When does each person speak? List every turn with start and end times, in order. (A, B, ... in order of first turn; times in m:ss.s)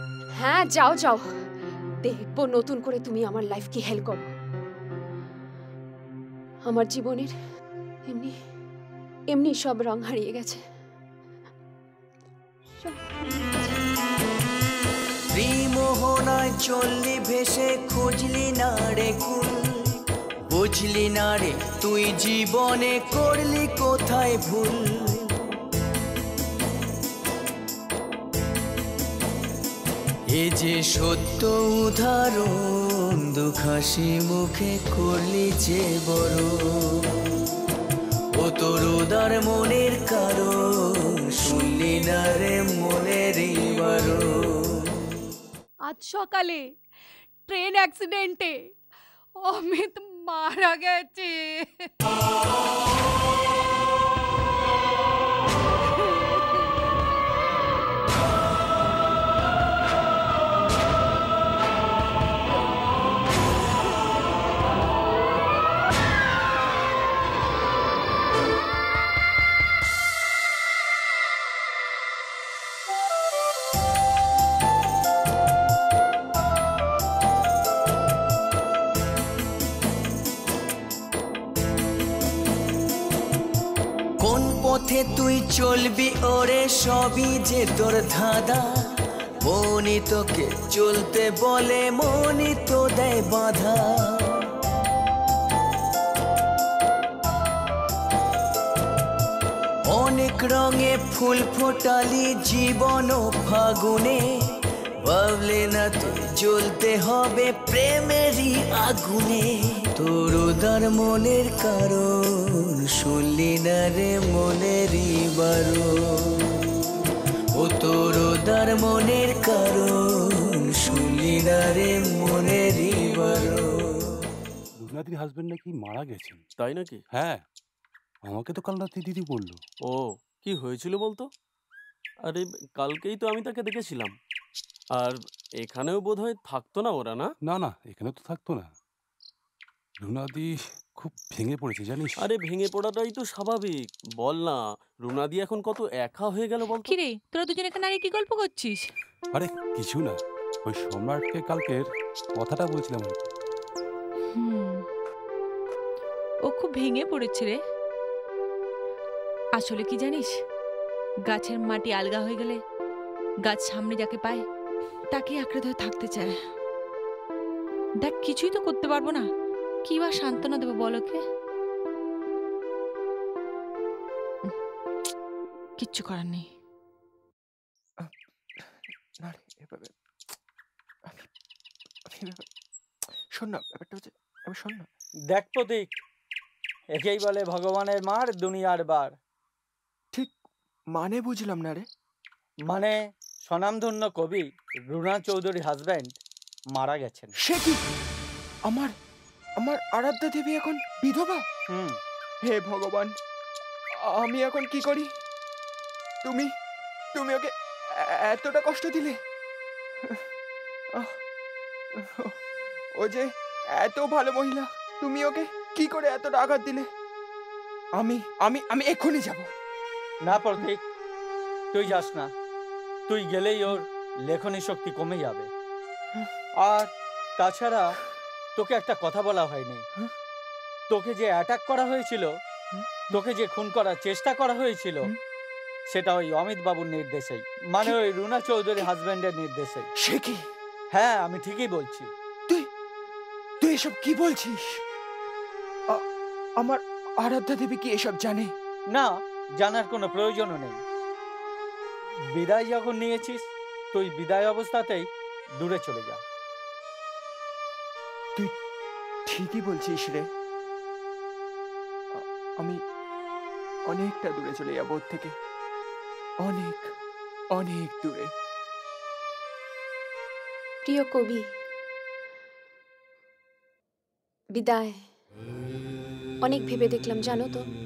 0:00.4-0:01.2 A
0:02.0-0:04.3 A
0:06.6-0:07.3 A
0:08.1-0:08.4 A
0:09.3-0:10.6 A
0:15.3-0:19.9 B
0:20.5-0:25.3 B
0:30.3-0:37.3 B
0:38.3-0:45.0 B
0:45.9-0:46.6 C
0:47.5-0:48.5 C
0:49.5-0:51.9 C
0:56.1-0:56.5 C
1:24.2-1:28.7 B
1:29.4-1:34.4 B
1:39.9-1:44.2 B
1:45.0-1:56.6 B
1:57.6-2:04.1 B
2:04.8-2:06.4 D
2:06.6-2:07.0 E
2:07.1-2:07.4 D
2:08.3-2:09.6 D
2:09.9-2:11.3 E
2:12.2-2:14.1 E
2:15.0-2:17.3 E
2:17.4-2:18.7 D
2:20.0-2:22.2 D
2:22.2-2:27.0 E
2:26.9-2:28.8 F
2:29.3-2:31.8 D
2:32.4-2:33.2 D
2:34.3-2:34.8 F
2:36.5-2:37.6 F
2:39.6-2:40.3 F
2:41.3-2:42.6 F
2:43.4-2:44.4 F
2:45.1-2:46.3 F
2:48.0-2:49.2 F
2:49.8-2:51.2 F
2:55.8-2:56.5 F
2:59.2-2:59.9 G
3:02.1-3:02.4 G
3:03.3-3:04.9 G
3:05.3-3:06.0 H
3:07.0-3:09.2 H
3:10.9-3:11.8 G
3:12.7-3:16.2 H
3:16.7-3:17.3 H
3:17.4-3:17.8 G
3:18.7-3:18.9 G
3:19.6-3:21.4 G
3:21.7-3:22.0 H
3:22.4-3:23.1 G
3:24.0-3:25.1 G
3:26.2-3:26.5 G
3:27.1-3:29.2 G
3:32.0-3:32.3 G
3:33.0-3:36.9 G
3:38.0-3:39.5 G
3:40.2-3:40.8 H
3:41.7-3:42.3 H
3:43.1-3:45.5 H
3:46.6-3:48.0 H
3:48.6-3:49.8 H
3:50.9-3:52.3 H
3:53.1-3:55.1 H
3:55.9-3:59.9 H
4:00.0-4:00.4 G
4:00.9-4:02.1 H
4:03.6-4:04.6 G
4:06.6-4:08.5 G
4:08.9-4:10.8 H
4:12.3-4:15.1 H
4:15.6-4:16.2 H
4:19.2-4:20.2 G
4:22.1-4:22.8 G
4:23.9-4:25.3 G
4:26.4-4:26.9 G
4:27.5-4:28.3 G
4:30.8-4:31.4 A
4:34.6-4:34.9 A
4:36.4-4:37.6 A